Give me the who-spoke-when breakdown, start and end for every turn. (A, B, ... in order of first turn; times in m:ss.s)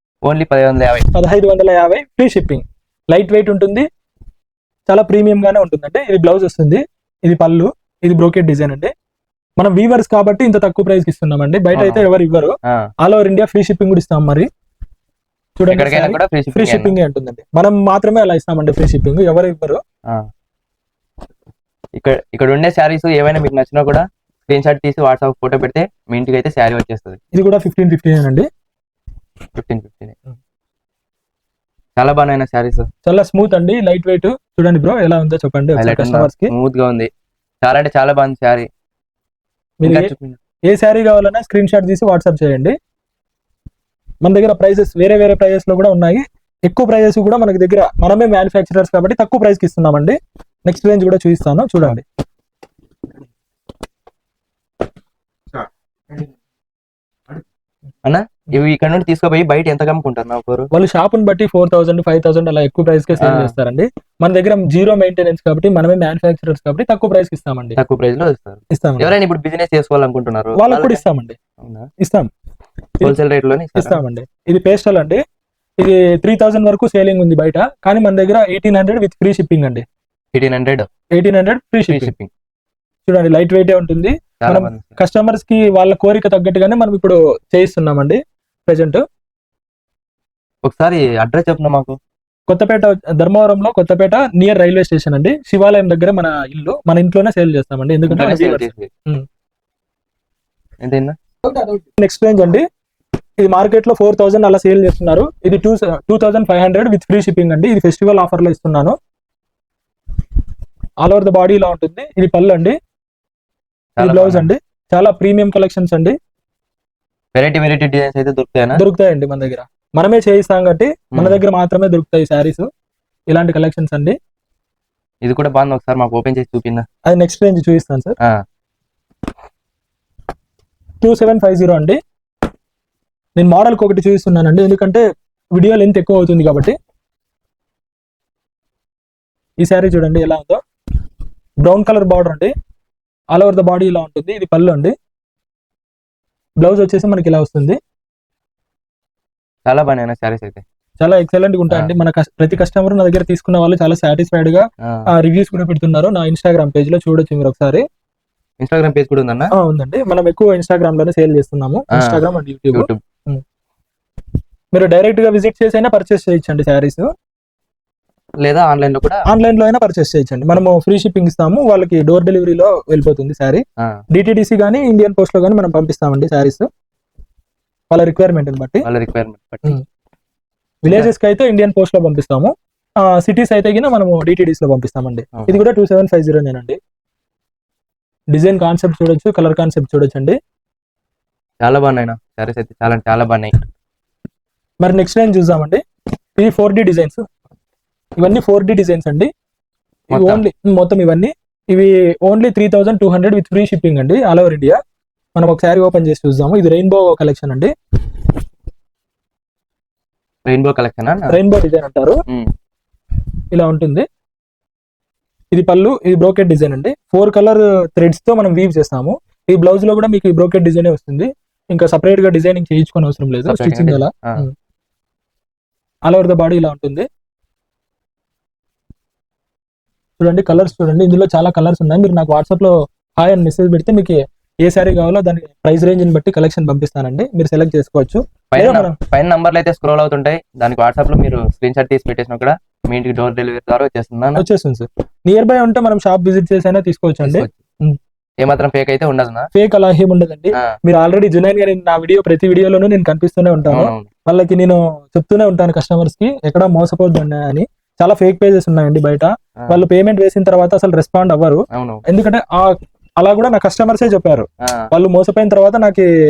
0:00.2-0:01.0 A
0:01.1-0:03.9 B
0:04.9-0:08.9 B
0:09.6-0:14.5 B
0:11.7-0:12.0 A
0:15.6-0:19.8 B
0:15.7-0:16.9 A
0:22.0-0:27.2 A
0:27.3-0:28.5 B
0:29.6-0:30.2 A
0:32.0-0:32.9 A
0:33.0-0:36.5 B
0:35.8-0:37.1 A
0:37.6-0:38.7 A
0:39.8-0:40.1 B
0:39.8-0:40.4 A
0:40.7-0:42.7 B
0:44.2-0:52.0 B
0:58.0-1:00.7 A
1:00.7-1:07.8 B
1:03.2-1:03.5 A
1:07.8-1:11.0 A
1:08.7-1:09.1 B
1:10.6-1:11.4 B
1:11.6-1:11.9 A
1:12.0-1:12.3 B
1:13.0-1:14.0 A
1:13.8-1:15.2 B
1:15.8-1:19.8 B
1:20.3-1:20.9 A
1:21.2-1:22.1 B
1:21.9-1:22.3 A
1:23.1-1:29.0 B
1:24.4-1:25.0 A
1:30.6-1:32.0 A
1:32.5-1:39.2 B
1:38.1-1:38.9 A
1:40.8-1:41.2 A
1:41.5-1:42.7 B
1:43.4-1:49.0 B
1:51.0-1:52.8 B
1:54.0-1:54.5 A
1:54.0-1:56.2 B
1:57.3-1:58.8 A
1:58.7-2:02.7 B
2:01.1-2:01.4 A
2:03.3-2:04.2 B
2:05.2-2:06.8 A
2:07.0-2:08.2 B
2:11.0-2:12.0 B
2:13.4-2:15.0 B
2:15.6-2:16.8 B
2:19.6-2:20.6 B
2:21.6-2:22.5 B
2:23.3-2:24.9 B
2:26.6-2:27.8 B
2:29.6-2:30.6 A
2:31.0-2:37.8 B
2:38.6-2:39.5 A
2:39.6-2:43.4 B
2:42.7-2:43.0 A
2:44.7-2:47.1 B
2:48.4-2:49.2 A
2:49.3-2:53.6 B
2:54.1-2:56.7 B
2:57.9-2:58.8 B
2:58.8-2:59.8 A
3:00.8-3:02.5 B
3:03.0-3:06.8 B
3:05.4-3:05.6 A
3:08.3-3:10.4 B
3:11.6-3:13.5 A
3:14.8-3:15.8 B
3:16.4-3:17.2 B
3:18.2-3:19.3 B
3:20.1-3:24.8 B
3:20.1-3:20.4 A
3:25.4-3:27.7 B
3:30.4-3:31.4 A
3:31.3-3:32.2 B
3:33.5-3:34.0 B
3:35.5-3:44.5 B
3:43.4-3:44.4 A
3:46.1-3:47.1 B
3:50.2-3:59.0 B
3:58.5-4:04.4 A
4:04.4-4:08.0 B
4:07.2-4:07.5 A
4:08.4-4:09.5 A
4:09.5-4:26.0 B
4:13.7-4:14.1 A
4:21.7-4:22.0 A